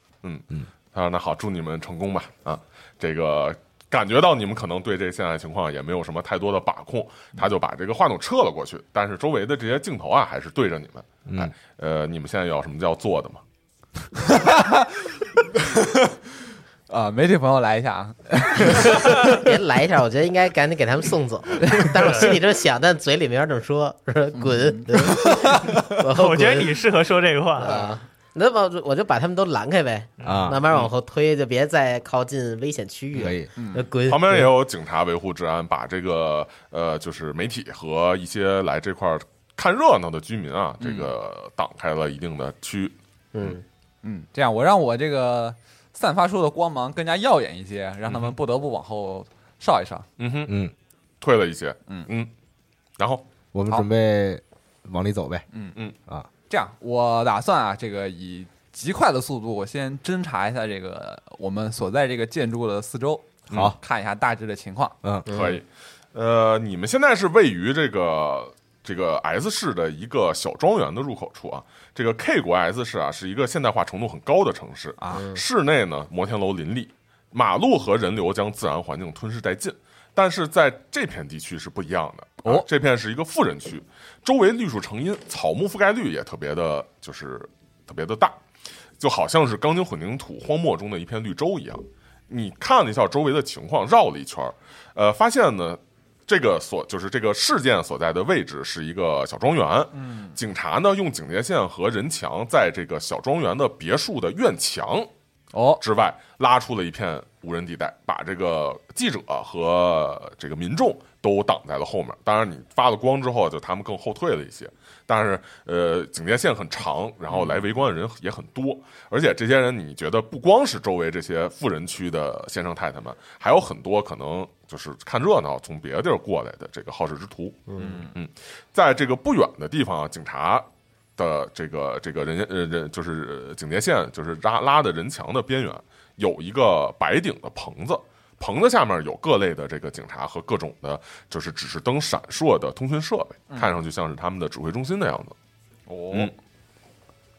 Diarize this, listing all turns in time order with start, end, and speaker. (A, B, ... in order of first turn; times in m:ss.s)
0:00.2-0:13.4 A
0:11.3-0:11.5 B
0:14.2-0:15.0 C
0:15.5-0:16.2 C
0:16.9-0:19.4 C
0:19.3-0:26.9 D
0:22.0-0:22.4 E
0:24.4-0:25.8 C
0:26.1-0:27.8 E
0:27.6-0:34.5 D
0:27.6-0:27.9 C
0:30.2-0:30.5 E
0:30.2-0:30.6 B
0:33.1-0:33.5 B
0:33.6-0:33.9 C
0:34.1-0:43.6 A
0:40.8-0:41.1 C
0:43.3-0:43.6 D
0:44.0-0:50.1 C
0:48.1-0:48.4 A
0:50.2-0:50.6 A
0:50.5-0:50.7 B
0:51.2-0:52.3 A
0:53.0-0:53.2 A
0:53.5-0:55.5 B
0:56.5-1:05.0 C
1:05.3-1:05.6 D
1:05.3-1:28.4 A
1:15.0-1:15.3 C
1:15.1-1:15.4 D
1:29.0-1:45.1 A
1:39.9-1:40.4 C
1:45.5-1:45.8 C
1:45.8-2:10.7 A
1:57.3-1:57.6 C
2:07.7-2:08.0 D
2:07.8-2:08.1 C
2:11.2-2:25.3 A
2:23.5-2:23.8 C
2:25.9-2:26.3 C